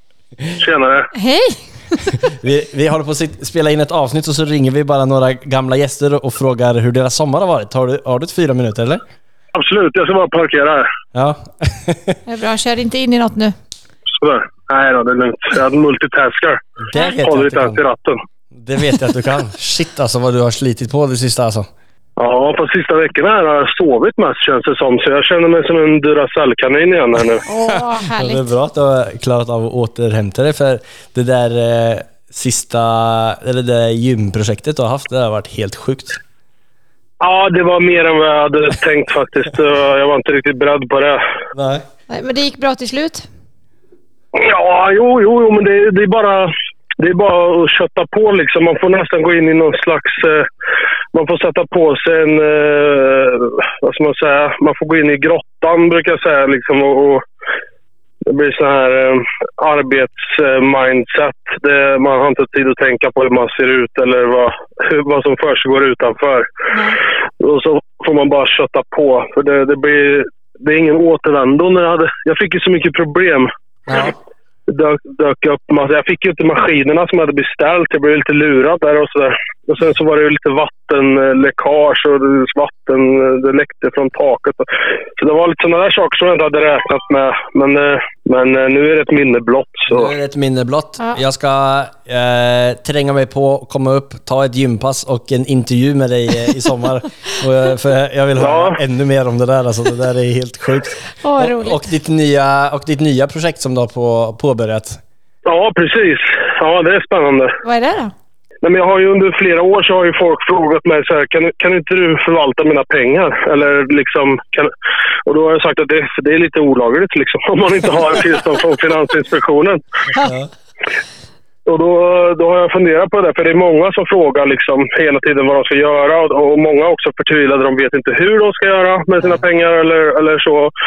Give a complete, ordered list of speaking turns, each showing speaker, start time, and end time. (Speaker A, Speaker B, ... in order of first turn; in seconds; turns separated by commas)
Speaker A: 0.6-1.1, Speaker B: 1.1-2.2, Speaker C: 2.3-9.0, Speaker A: 9.5-10.9, Speaker C: 11.1-12.2, Speaker B: 12.2-13.5, Speaker A: 14.2-16.6, Speaker C: 16.8-17.8, Speaker A: 17.1-18.2, Speaker C: 18.5-21.7, Speaker A: 22.2-27.4, Speaker B: 27.4-28.5, Speaker C: 27.7-36.2, Speaker A: 37.2-41.2, Speaker C: 41.5-41.8, Speaker B: 42.1-43.2, Speaker A: 44.3-50.5, Speaker A: 51.1-57.2, Speaker A: 58.2-66.5, Speaker B: 66.7-67.0, Speaker A: 67.4-74.1, Speaker C: 73.9-74.1, Speaker A: 74.7-90.1, Speaker C: 89.9-105.0, Speaker A: 98.4-98.8, Speaker B: 101.2-101.8, Speaker A: 105.4-107.6, Speaker B: 107.6-108.1, Speaker A: 108.6-114.7, Speaker A: 115.2-119.8, Speaker C: 120.2-120.5, Speaker A: 121.7-130.7